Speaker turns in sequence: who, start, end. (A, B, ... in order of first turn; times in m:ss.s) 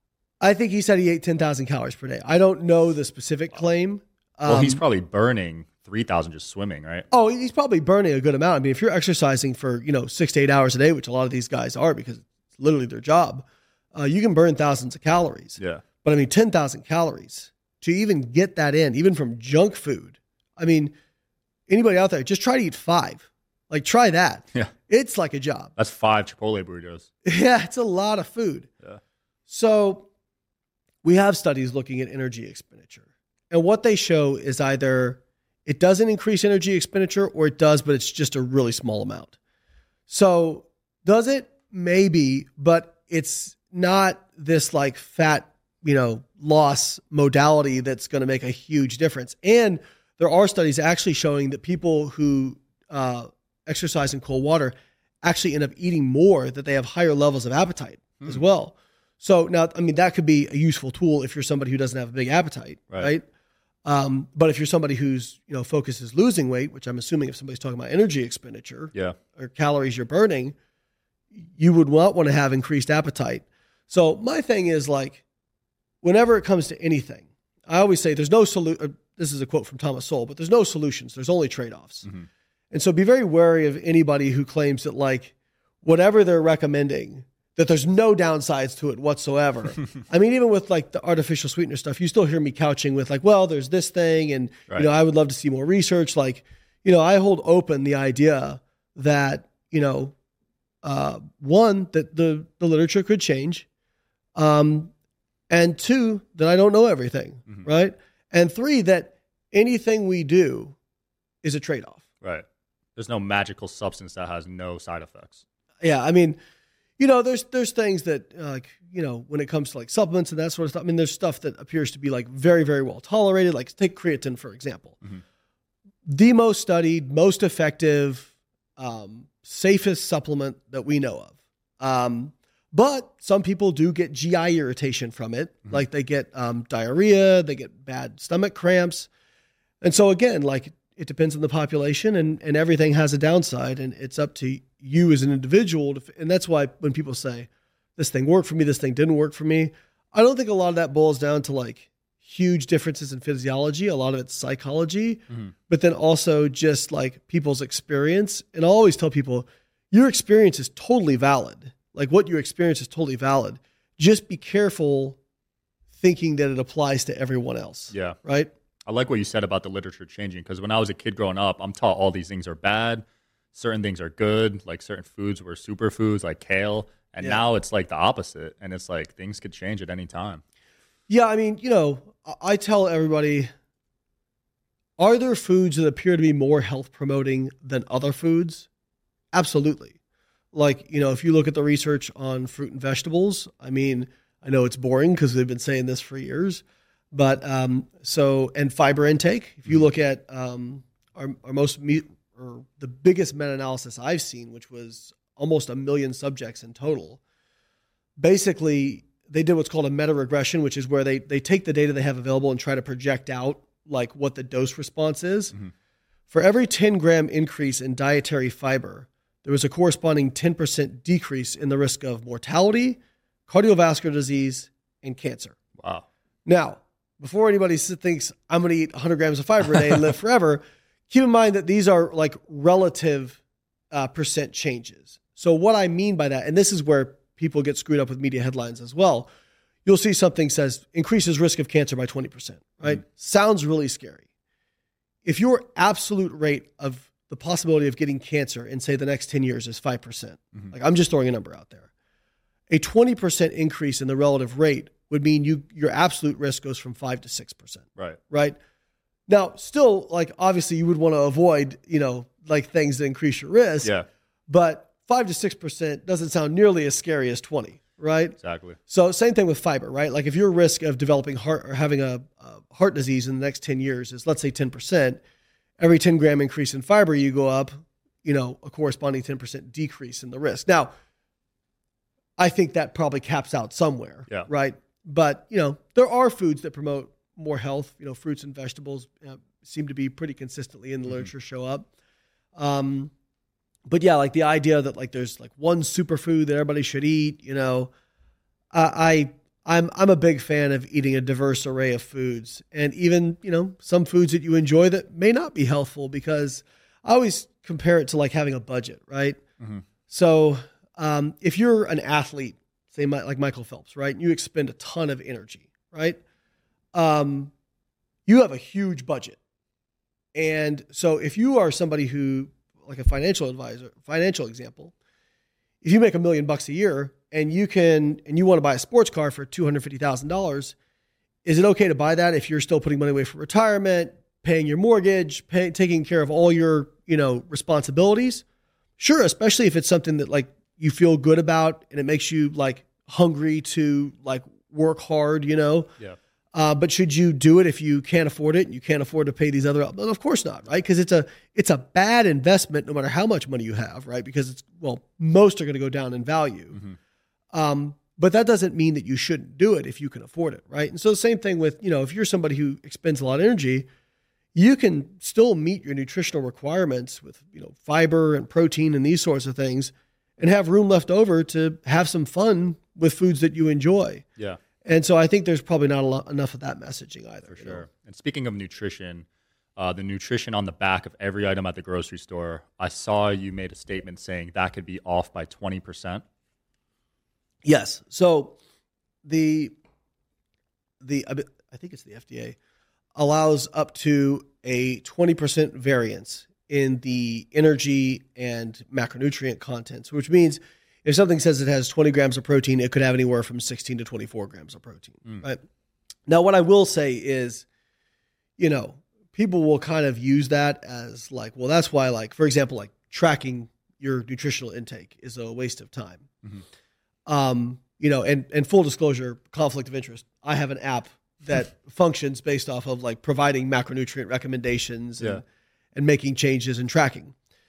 0:00.4-0:04.8 A
0:04.5-0:07.1 B
0:07.1-0:20.9 A
0:15.6-0:15.8 B
0:21.7-0:25.7 A
0:25.8-0:27.1 B
0:27.2-0:28.7 A
0:29.5-0:30.1 A
0:31.0-0:39.3 A
0:40.1-1:03.2 A
1:03.8-1:10.6 A
1:11.6-1:15.2 A
1:16.0-1:22.1 A
1:22.7-1:40.1 A
1:40.8-1:43.7 A
1:44.4-1:44.9 A
1:45.5-1:50.8 A
1:51.4-1:52.0 A
1:53.0-1:55.4 B
1:55.8-1:56.4 A
1:57.0-2:05.0 A
2:06.1-2:19.1 A
2:19.8-2:45.2 A
2:46.0-2:48.5 A
2:47.9-2:48.2 B
2:48.9-3:00.4 B
3:01.1-3:03.5 A
3:05.0-3:08.7 A
3:09.3-3:10.0 A
3:10.5-3:27.2 A
3:28.2-3:35.5 A
3:36.3-3:45.6 A
3:45.8-3:46.0 B
3:46.5-3:53.4 A
3:53.9-3:59.3 A
3:59.8-4:04.2 A
4:05.2-4:11.9 A
4:12.7-4:18.6 A
4:19.3-4:23.9 A
4:24.5-4:35.2 A
4:28.4-4:28.8 B
4:35.8-4:40.9 A
4:42.4-4:51.9 A
4:52.6-4:53.1 A
4:53.9-4:57.9 A
4:58.7-5:09.4 A
5:10.1-5:16.2 A
5:16.9-5:17.5 A
5:18.3-5:19.4 A
5:20.4-5:24.9 A
5:25.8-5:30.8 A
5:31.4-5:38.4 A
5:39.0-5:45.9 A
5:46.5-5:56.8 A
5:57.5-6:03.9 A
6:04.6-6:14.2 A
6:14.8-6:17.8 A
6:17.5-6:19.3 B
6:19.8-6:26.2 B
6:27.6-6:28.6 A
6:29.2-6:29.7 A
6:31.0-6:32.6 A
6:33.2-6:45.6 A
6:46.3-6:47.7 A
6:48.6-6:56.3 A
6:57.3-7:05.4 A
7:06.0-7:07.3 A